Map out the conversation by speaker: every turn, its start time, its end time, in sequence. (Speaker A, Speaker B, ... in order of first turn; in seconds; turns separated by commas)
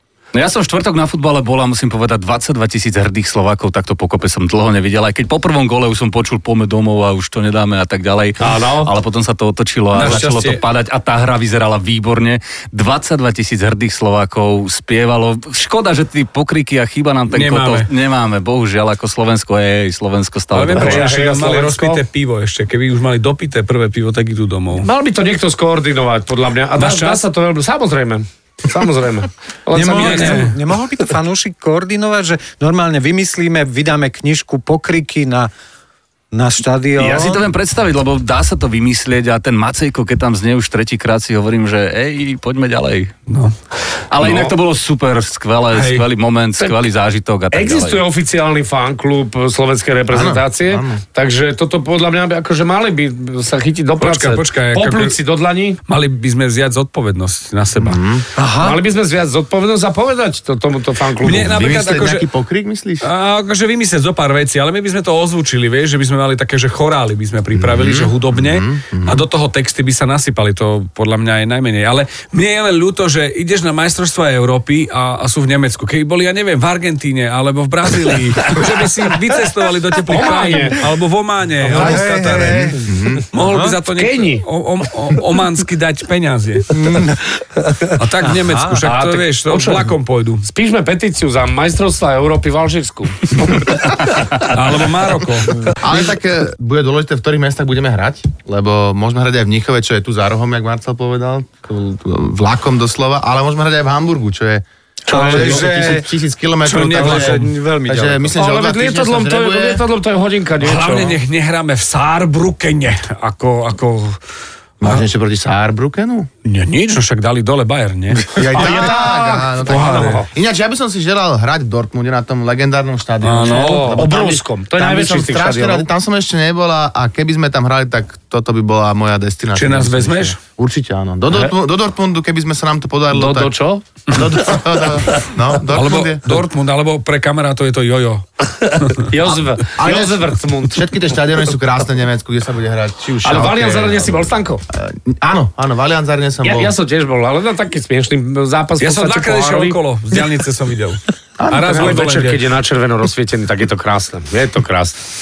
Speaker A: 0.3-21.1, Speaker B: 8.4-8.9, Speaker C: 9.9-10.6, Speaker C: 17.3-17.9, Speaker C: 20.5-24.9, Speaker B: 20.8-22.0, Speaker B: 24.8-30.5, Speaker C: 26.8-27.2, Speaker D: 29.7-35.5, Speaker C: 29.9-30.6, Speaker D: 36.3-37.4, Speaker A: 37.0-43.1, Speaker C: 43.3-43.5, Speaker A: 44.1-48.0, Speaker B: 44.2-44.5, Speaker C: 45.7-46.1, Speaker B: 47.5-55.8, Speaker E: 50.1-51.0, Speaker C: 54.0-55.1, Speaker C: 55.9-58.0, Speaker E: 57.8-58.2, Speaker D: 58.4-58.8, Speaker B: 58.6-61.6, Speaker C: 61.2-62.2, Speaker E: 61.3-63.1, Speaker C: 63.0-82.8, Speaker E: 67.5-69.2, Speaker B: 80.1-80.8, Speaker B: 81.6-82.0, Speaker D: 81.7-82.8, Speaker E: 82.8-83.2, Speaker C: 83.3-86.8, Speaker D: 83.4-83.8, Speaker B: 84.0-84.4, Speaker D: 86.7-87.2, Speaker C: 87.9-90.5, Speaker D: 88.2-88.8, Speaker B: 88.8-94.4, Speaker C: 94.4-95.7, Speaker E: 95.8-109.8, Speaker D: 105.1-106.1, Speaker B: 105.1-105.7, Speaker C: 106.7-107.5, Speaker D: 106.7-108.4, Speaker B: 108.3-111.1, Speaker C: 110.6-114.2, Speaker E: 114.8-116.3, Speaker C: 116.4-118.8, Speaker E: 118.3-133.5, Speaker B: 118.5-120.3, Speaker C: 119.7-120.2, Speaker C: 123.2-124.0, Speaker B: 123.4-125.9, Speaker C: 129.5-130.4, Speaker B: 133.1-133.8, Speaker E: 134.1-136.4, Speaker C: 135.7-138.2, Speaker B: 138.6-140.9, Speaker C: 138.8-139.1, Speaker E: 139.7-146.7, Speaker B: 143.2-144.6, Speaker B: 146.4-149.8, Speaker C: 148.8-152.4, Speaker E: 151.4-151.9, Speaker B: 151.7-155.0